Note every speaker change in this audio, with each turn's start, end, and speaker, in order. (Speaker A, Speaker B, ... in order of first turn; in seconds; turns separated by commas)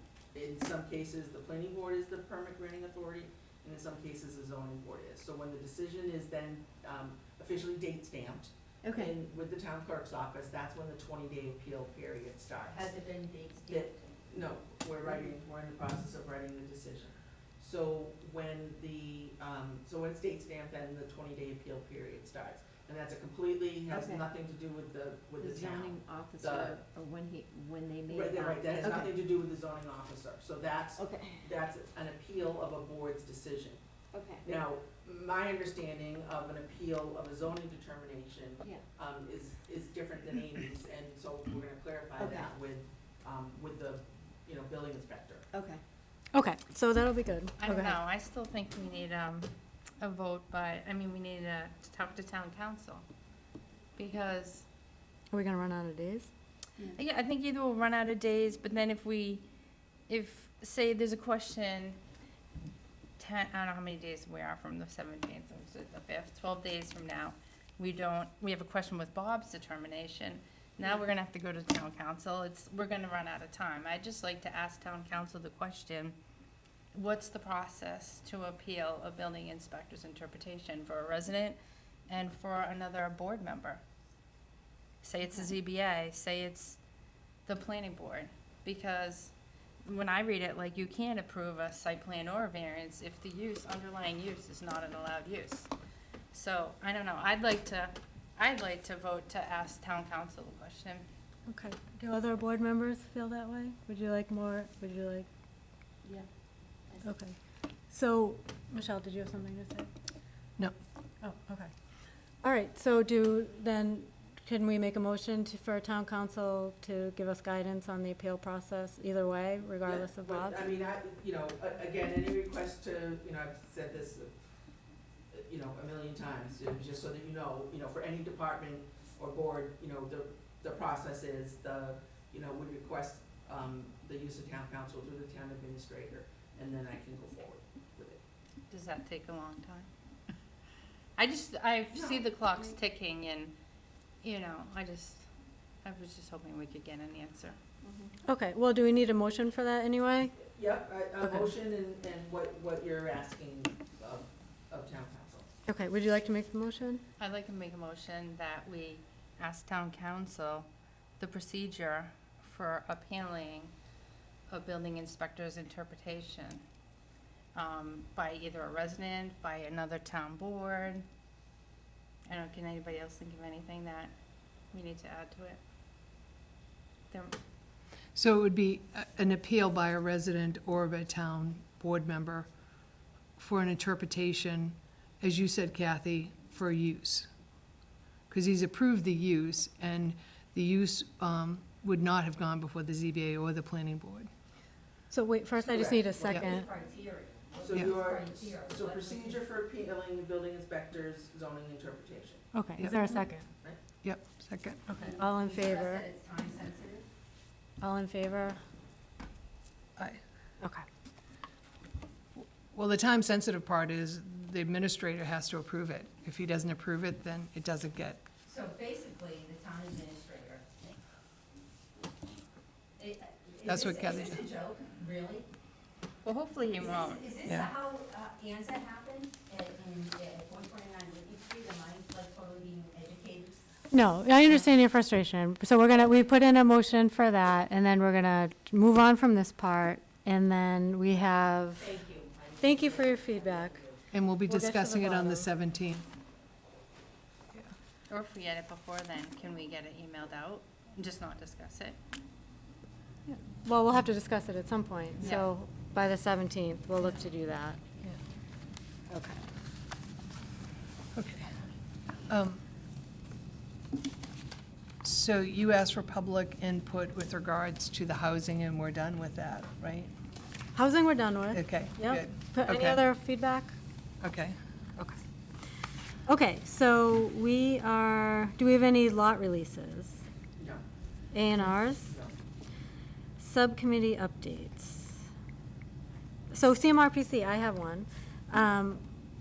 Speaker A: 0.3-12.9, Speaker B: 8.8-9.1, Speaker C: 12.7-14.0, Speaker A: 13.7-26.8, Speaker B: 23.9-24.3, Speaker B: 25.4-29.1, Speaker A: 28.1-33.8, Speaker B: 31.0-31.4, Speaker B: 34.1-34.5, Speaker A: 34.4-45.5, Speaker B: 42.2-42.5, Speaker B: 45.5-45.8, Speaker D: 46.3-48.0, Speaker E: 47.6-53.0, Speaker E: 54.0-54.6, Speaker D: 55.3-56.3, Speaker E: 56.9-59.5, Speaker E: 60.1-62.0, Speaker E: 63.2-76.2, Speaker E: 76.9-83.8, Speaker E: 85.0-86.8, Speaker E: 87.5-89.3, Speaker E: 89.8-95.7, Speaker E: 96.3-101.1, Speaker D: 101.5-105.3, Speaker D: 107.0-107.4, Speaker D: 107.9-109.9, Speaker D: 111.2-111.7, Speaker D: 112.4-120.7, Speaker A: 119.8-124.3, Speaker A: 125.3-138.2, Speaker E: 138.7-139.9, Speaker E: 141.2-143.5, Speaker A: 141.9-142.2, Speaker E: 144.2-145.2, Speaker E: 145.8-147.6, Speaker B: 147.8-148.1, Speaker D: 148.2-150.3, Speaker A: 150.4-155.5, Speaker D: 155.7-157.0, Speaker E: 157.2-160.7, Speaker E: 161.2-163.7, Speaker E: 164.5-166.6, Speaker E: 167.6-171.1, Speaker E: 172.3-174.1, Speaker E: 174.7-175.6, Speaker E: 177.1-177.4, Speaker F: 178.1-182.5, Speaker F: 183.4-187.3, Speaker F: 188.3-194.3, Speaker D: 195.1-196.7, Speaker A: 195.6-196.2, Speaker C: 196.1-199.4, Speaker A: 197.6-202.5, Speaker D: 202.5-203.5, Speaker F: 202.8-203.2, Speaker F: 204.0-204.8, Speaker D: 204.9-206.1, Speaker C: 204.9-207.1, Speaker D: 207.8-208.6, Speaker D: 210.6-210.9, Speaker F: 212.4-218.2, Speaker C: 218.5-220.9, Speaker C: 223.0-225.5, Speaker F: 223.6-224.5, Speaker E: 226.2-227.4, Speaker C: 226.9-233.6, Speaker F: 227.4-227.7, Speaker D: 233.9-241.9, Speaker C: 241.8-244.0, Speaker D: 242.6-243.8, Speaker F: 244.1-246.1, Speaker D: 244.4-245.5, Speaker E: 248.1-252.0, Speaker D: 253.3-257.8, Speaker D: 259.1-259.4, Speaker F: 261.1-261.5, Speaker F: 262.3-262.6, Speaker F: 265.0-270.1, Speaker D: 270.8-273.8, Speaker F: 271.5-273.0, Speaker F: 274.2-274.6, Speaker D: 276.3-280.2, Speaker A: 280.6-280.8, Speaker D: 281.3-282.1, Speaker A: 281.6-282.3, Speaker D: 283.4-285.2, Speaker D: 286.5-289.0